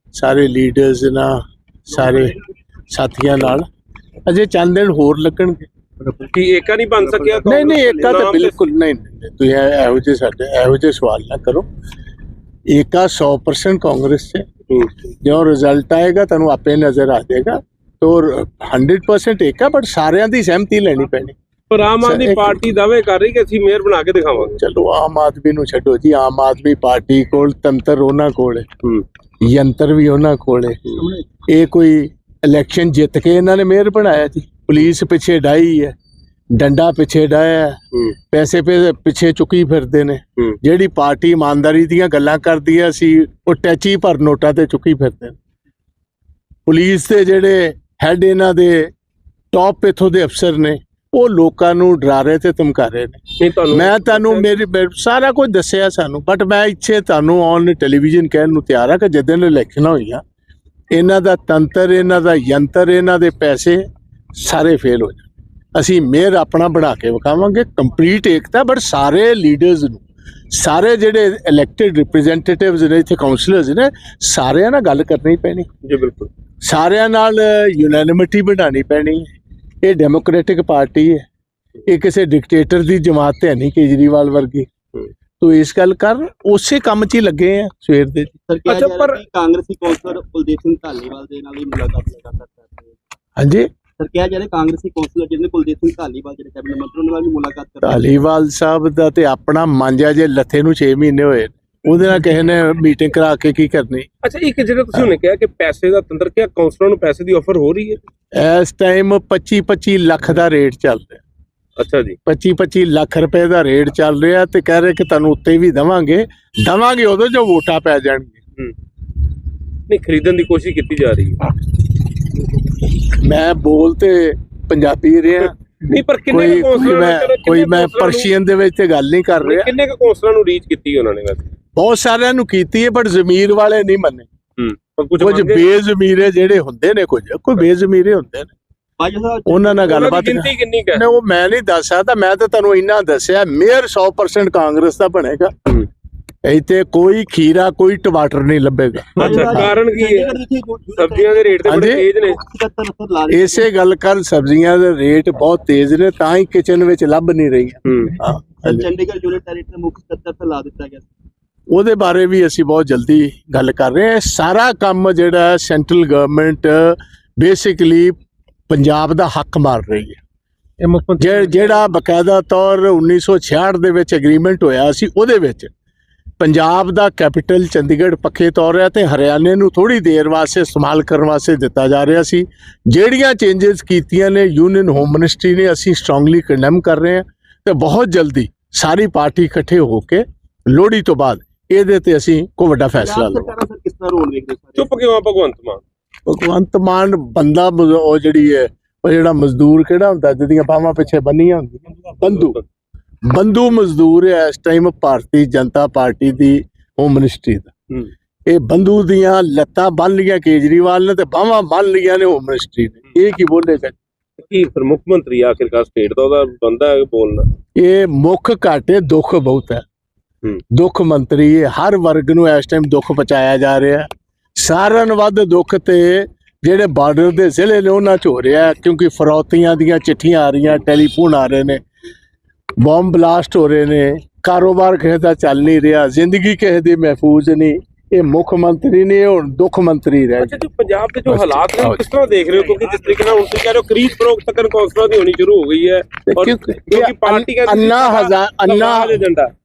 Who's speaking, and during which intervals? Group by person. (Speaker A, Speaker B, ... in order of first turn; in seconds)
Speaker A: 0.1-2.4, 2.9-3.7, 4.3-5.7, 7.5-11.7, 12.7-14.5, 15.2-21.4, 22.0-22.6, 24.6-28.7, 29.4-31.0, 31.5-36.0, 36.5-37.8, 38.3-45.4, 46.7-48.9, 49.5-60.2, 60.9-70.0, 70.5-75.7, 76.6-79.3, 79.8-81.3, 81.9-84.7, 85.4-88.3, 93.4-93.7, 97.8-104.1, 108.3-111.2, 112.3-118.4, 123.1-125.6, 126.3-129.8, 131.8-134.3, 135.2-138.5, 139.5-145.5, 146.4-149.7, 151.7-152.1, 153.3-158.9, 161.7-168.2, 168.7-170.2, 171.2-175.7, 176.4-193.5, 196.3-202.6, 203.3-207.7, 208.5-214.0, 217.8-219.8, 220.7-231.8, 232.8-240.6, 241.3-242.0, 246.3-249.2
Speaker B: 6.0-6.3, 7.0-7.9, 31.0-31.2, 88.5-93.0, 94.0-98.2, 139.0-140.1, 149.2-153.7, 158.6-161.1, 192.9-195.0
Speaker C: 6.3-8.7, 21.7-24.6, 53.4-54.6, 75.8-76.3, 88.7-89.2, 104.2-108.0, 111.8-112.2, 119.9-121.5, 125.8-128.3, 129.4-131.5, 134.6-135.7, 139.9-141.1, 149.2-150.4, 150.9-152.4, 157.9-158.2, 170.8-171.9, 194.8-195.8, 202.1-202.6, 214.4-217.5, 240.4-249.5